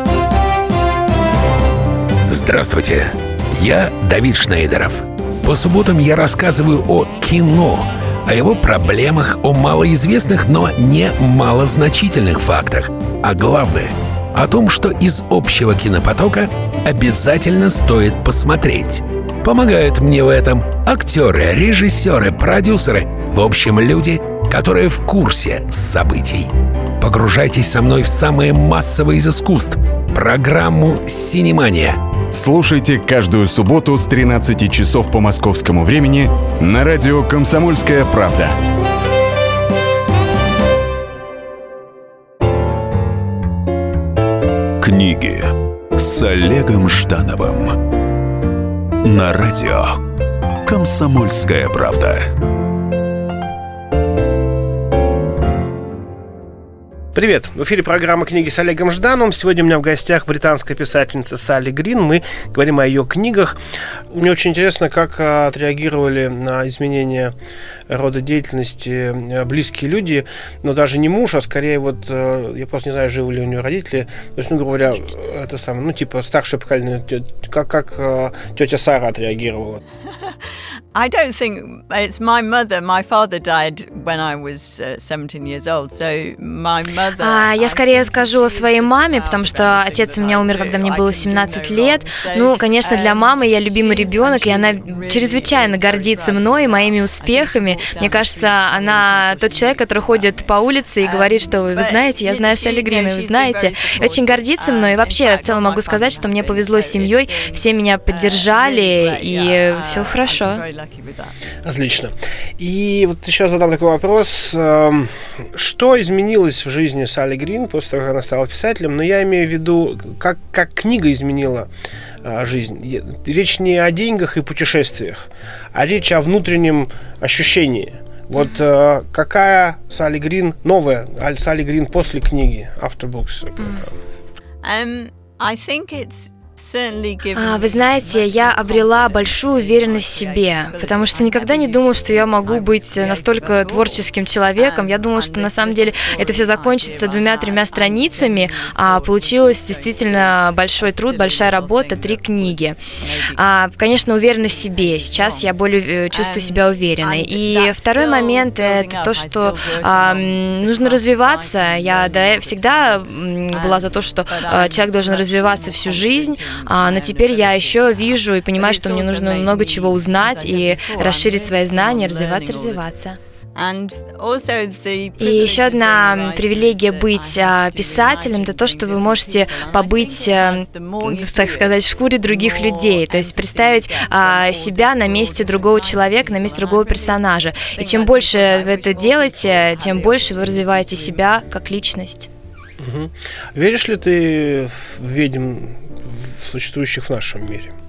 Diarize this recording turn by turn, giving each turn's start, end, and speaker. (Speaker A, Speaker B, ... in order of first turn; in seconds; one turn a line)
Speaker A: 2.3-32.0
Speaker B: 32.3-38.5
Speaker C: 44.8-47.8
Speaker C: 49.0-50.0
Speaker C: 50.6-52.3
Speaker D: 57.1-63.6
Speaker D: 64.1-67.3
Speaker D: 67.9-79.8
Speaker E: 81.0-100.5
Speaker F: 87.2-110.6
Speaker E: 101.0-111.4
Speaker D: 111.7-121.7
Speaker D: 122.2-133.9
Speaker F: 128.3-128.6
Speaker E: 134.6-153.5
Speaker F: 137.3-152.8
Speaker F: 153.3-173.2
Speaker E: 154.1-155.5
Speaker E: 156.1-172.9
Speaker E: 173.6-191.2
Speaker F: 175.2-192.3
Speaker D: 192.8-197.7